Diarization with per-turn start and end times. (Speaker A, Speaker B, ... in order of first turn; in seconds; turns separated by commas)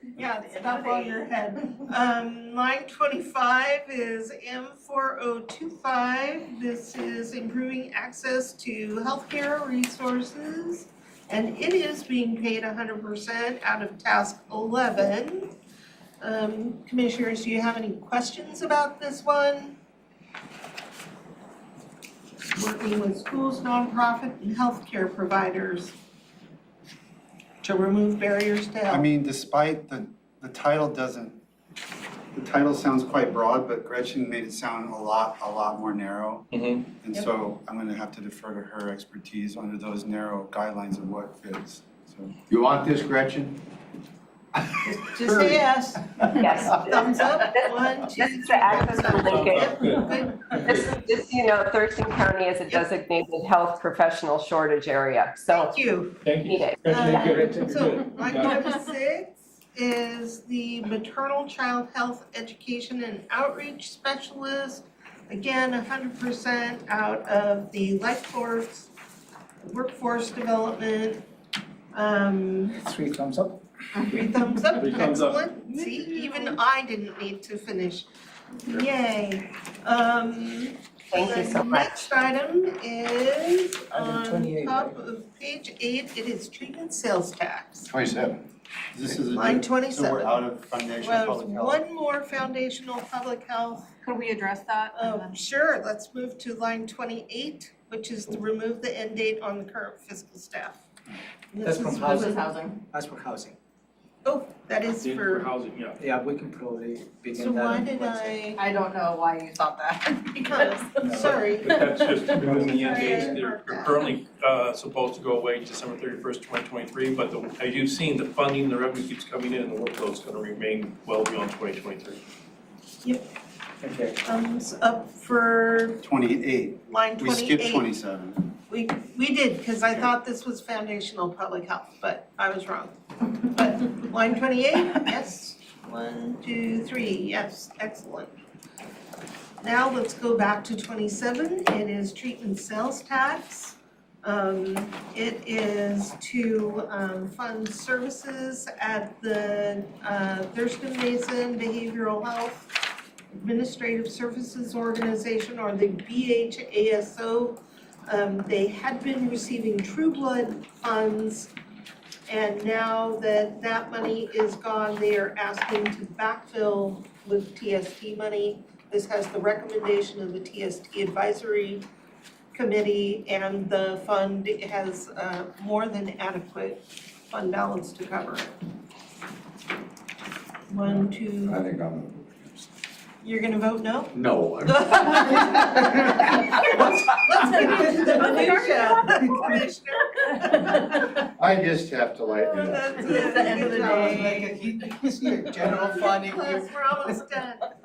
Speaker A: 0.1-15.5, Speaker B: 0.6-1.2, Speaker A: 16.2-19.8, Speaker A: 22.5-25.9, Speaker A: 27.6-29.0, Speaker C: 28.9-31.4, Speaker C: 32.3-36.5, Speaker D: 36.5-36.9, Speaker C: 37.0-43.0, Speaker E: 42.6-43.5, Speaker A: 44.9-51.2, Speaker F: 46.3-50.0, Speaker D: 48.9-50.8, Speaker F: 50.5-55.7, Speaker A: 55.5-56.2, Speaker D: 56.2-58.6, Speaker F: 56.4-57.4, Speaker A: 56.9-68.9, Speaker G: 57.0-57.7, Speaker A: 69.6-71.2, Speaker A: 71.9-72.8, Speaker G: 72.7-73.6, Speaker A: 74.0-78.1, Speaker D: 74.8-75.5, Speaker B: 75.9-76.4, Speaker A: 78.6-87.9, Speaker F: 81.1-82.1, Speaker G: 83.9-85.0, Speaker C: 87.9-88.3, Speaker C: 88.9-91.8, Speaker A: 89.3-90.4, Speaker A: 91.0-93.9, Speaker B: 94.0-95.4, Speaker A: 94.9-100.8, Speaker A: 101.5-102.5, Speaker G: 101.6-103.5, Speaker B: 102.0-102.8, Speaker A: 104.2-105.5, Speaker D: 105.0-106.0, Speaker G: 106.0-108.4, Speaker A: 107.3-108.6, Speaker B: 108.5-111.0, Speaker A: 110.3-114.1, Speaker G: 111.0-111.4, Speaker D: 111.2-122.2, Speaker G: 112.6-113.3, Speaker G: 123.8-124.2, Speaker A: 124.2-126.0, Speaker C: 126.0-128.5, Speaker A: 126.9-127.8, Speaker A: 128.7-138.3, Speaker A: 139.6-161.5, Speaker A: 162.3-171.9, Speaker A: 172.5-178.5, Speaker A: 180.7-181.6, Speaker E: 181.4-182.2, Speaker A: 183.2-191.2, Speaker E: 184.1-184.9, Speaker G: 185.5-185.8, Speaker B: 187.4-189.6, Speaker G: 187.6-189.6, Speaker B: 190.2-191.1, Speaker E: 191.4-192.9, Speaker C: 191.4-192.8, Speaker A: 192.4-194.7, Speaker B: 192.9-194.6, Speaker G: 193.4-196.9, Speaker A: 195.4-197.7